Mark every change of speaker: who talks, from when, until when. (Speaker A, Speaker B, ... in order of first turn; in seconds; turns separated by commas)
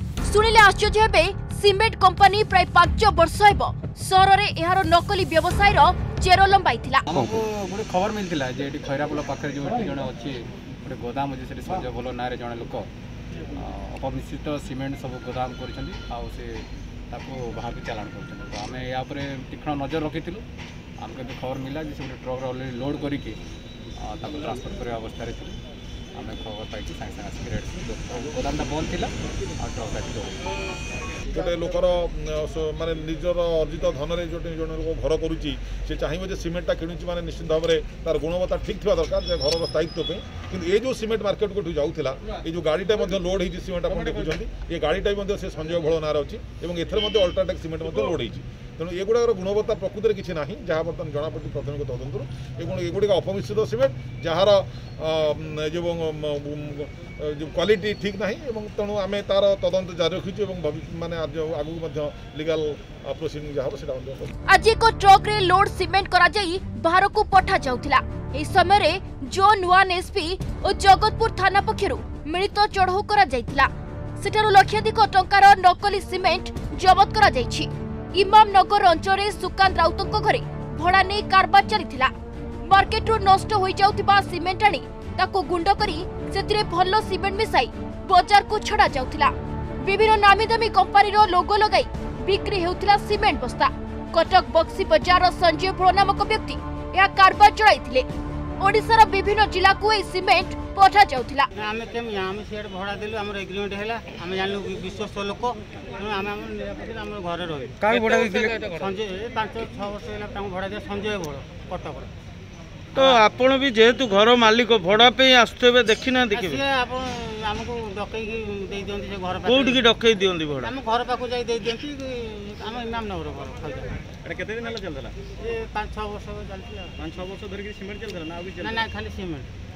Speaker A: 0.2-7.1, Speaker B: 7.1-12.9, Speaker B: 13.5-20.4, Speaker B: 21.0-23.4, Speaker B: 24.0-25.6, Speaker B: 26.1-30.4, Speaker C: 31.3-64.3, Speaker A: 64.5-98.1, Speaker A: 98.6-101.5, Speaker D: 101.6-108.1, Speaker E: 107.8-108.8, Speaker F: 107.9-108.8, Speaker D: 108.7-112.1, Speaker D: 113.0-113.2, Speaker F: 113.2-116.4, Speaker D: 116.3-119.8, Speaker E: 116.3-116.6, Speaker E: 119.5-120.7, Speaker F: 119.7-120.7, Speaker D: 120.6-124.0, Speaker E: 124.2-125.2, Speaker D: 125.4-127.0, Speaker E: 127.0-128.8, Speaker D: 128.6-129.5